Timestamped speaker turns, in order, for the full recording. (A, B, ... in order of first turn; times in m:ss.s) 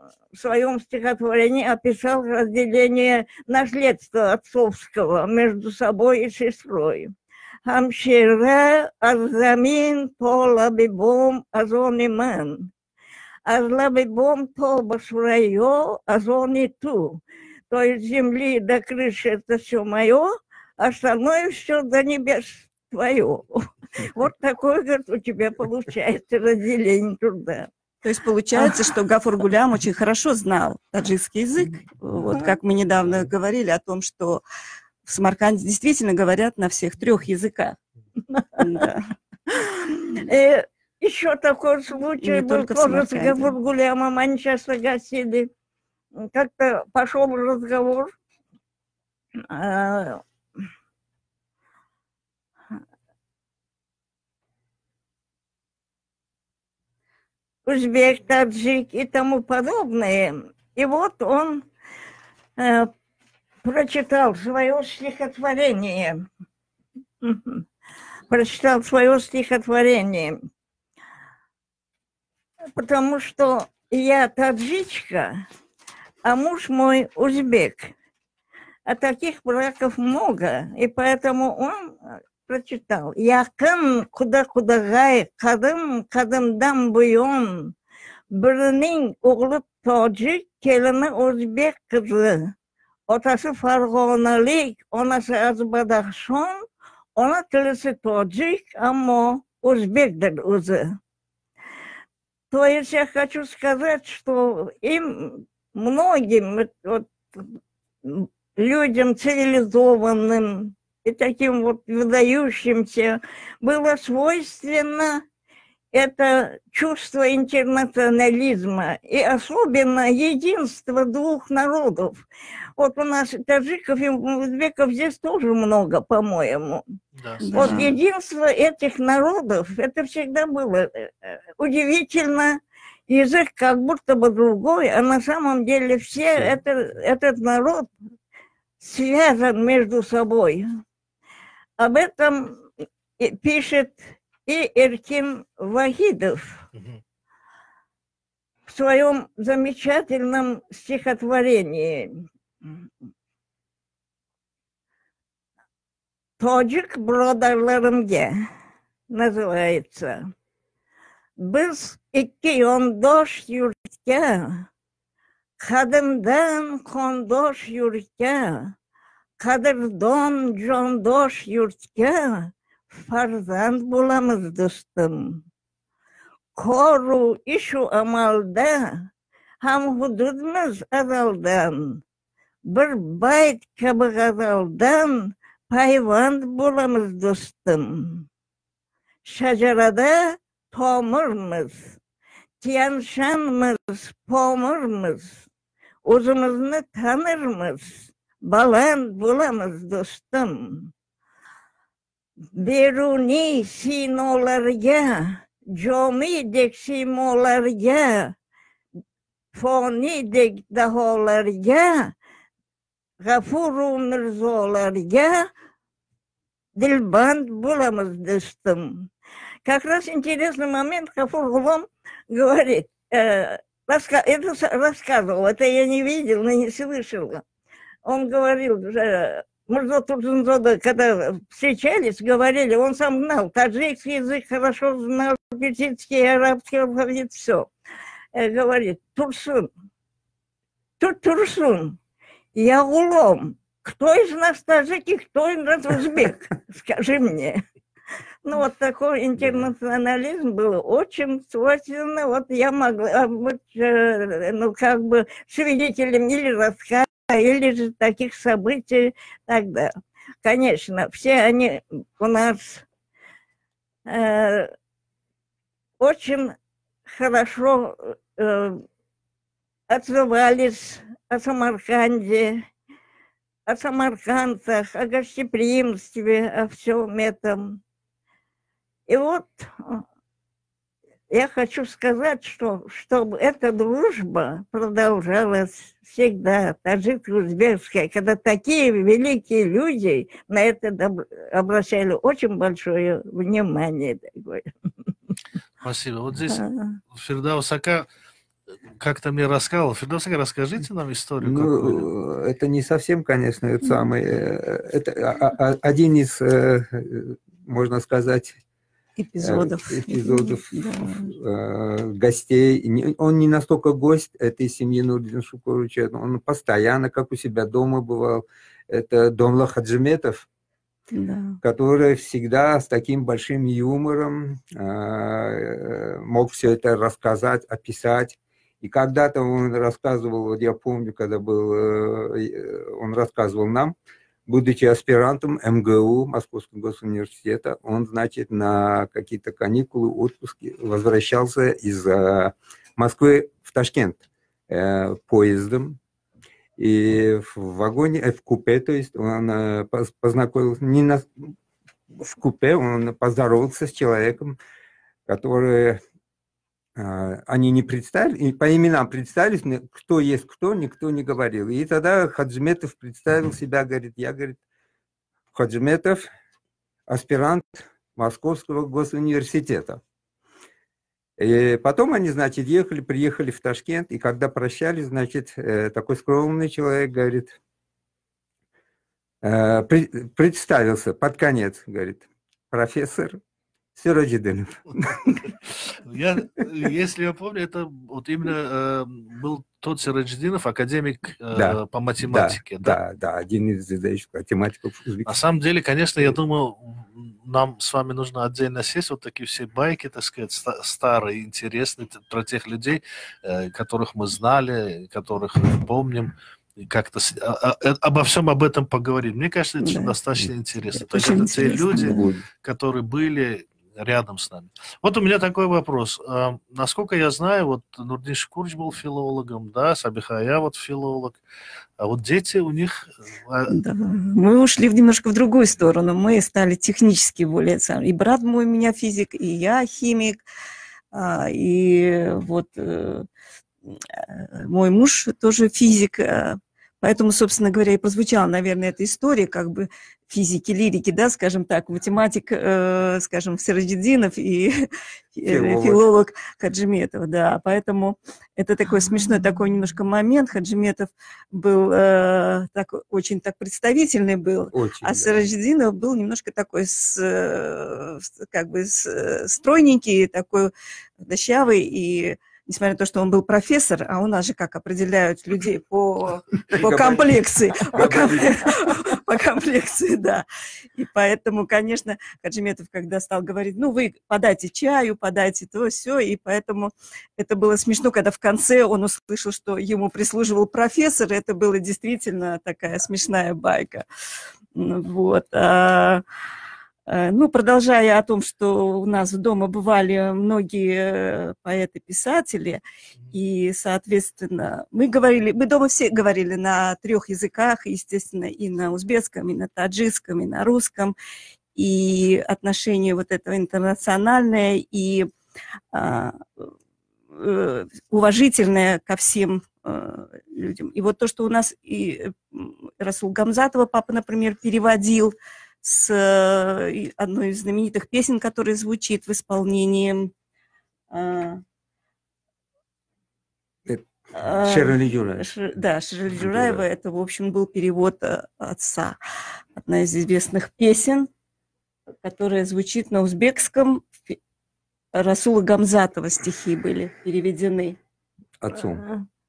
0:00.3-0:07.1 A
0:07.6-0:12.7 A
0:13.4-0:27.7 A
0:28.0-0:34.4 B
0:35.0-0:37.8 B
0:38.6-0:39.1 B
0:39.5-0:45.5 A
0:42.2-0:43.6 B
0:46.2-0:48.1 A
0:49.5-0:50.2 A
0:57.6-1:01.6 A
1:02.6-1:02.9 A
1:03.6-1:06.2 A
1:07.2-1:07.6 A
1:08.3-1:10.4 A
1:12.8-1:15.3 A
1:16.2-1:17.9 A
1:18.9-1:21.9 A
1:22.4-1:27.7 A
1:28.3-1:32.5 A
1:33.1-1:36.6 A
1:37.2-1:40.8 A
1:42.5-1:47.4 A
1:48.0-1:55.2 A
1:55.9-2:02.2 A
2:02.8-2:06.8 A
2:07.2-2:07.9 C
2:07.4-2:07.9 B
2:07.5-2:12.6 A
2:13.1-2:17.9 A
2:18.8-2:20.6 A
2:21.8-2:22.6 A
2:23.2-2:26.6 A
2:26.7-2:27.0 C
2:28.7-2:32.2 A
2:36.4-2:38.3 A
2:39.1-2:40.3 A
2:41.4-2:44.6 A
2:45.6-2:48.7 A
2:49.4-2:55.4 A
2:56.6-2:59.0 A
2:59.6-3:02.0 A
3:02.6-3:08.2 A
3:09.2-3:12.0 A
3:12.6-3:15.4 A
3:16.0-3:20.9 A
3:22.6-3:28.3 A
3:29.5-3:32.1 A
3:33.2-3:35.5 A
3:36.8-3:39.1 A
3:39.6-3:47.4 A
3:48.0-3:57.7 A
3:58.3-3:59.7 A
4:01.0-4:02.0 A
4:02.5-4:07.6 A
4:08.4-4:19.9 A
4:20.4-4:22.8 A
4:24.0-4:24.7 A
4:26.0-4:26.5 A
4:27.1-4:28.8 A
4:29.9-4:32.6 A
4:33.7-4:37.8 A
4:39.1-4:40.0 A
4:41.3-4:54.7 A
4:55.8-4:58.1 C
4:56.5-4:57.0 A
4:59.0-5:02.0 C
5:01.4-5:08.6 D
5:09.2-5:11.3 B
5:09.4-5:20.4 D
5:21.1-5:21.6 B
5:21.6-5:33.9 D
5:34.5-5:46.0 D
5:46.8-5:51.5 D
5:52.2-5:54.6 D
5:55.3-5:56.0 D
5:57.0-6:04.6 D
6:05.5-6:06.3 D
6:07.1-6:10.0 D
6:11.4-6:17.6 D
6:19.4-6:23.4 D
6:24.0-6:25.5 D
6:25.6-6:33.0 C
6:31.5-6:35.4 D
6:35.2-7:01.4 C
6:49.8-6:50.1 B
6:50.9-6:52.3 B
6:51.3-6:52.4 D
7:02.0-7:03.7 C
7:03.7-7:10.4 B
7:11.1-7:13.2 B
7:13.8-8:04.0 B
7:25.5-7:26.0 D
7:34.7-7:35.4 D
7:46.7-7:48.9 D
8:04.7-8:06.2 B
8:07.1-8:21.2 B
8:21.8-8:25.3 B
8:25.9-8:26.7 B
8:27.3-8:40.3 B
8:41.1-8:41.6 B
8:43.8-8:45.5 D
8:44.3-8:49.2 B
8:46.3-8:46.8 D
8:49.8-8:51.3 B
8:52.2-8:54.4 B
8:55.1-8:58.0 B
8:58.6-8:59.1 D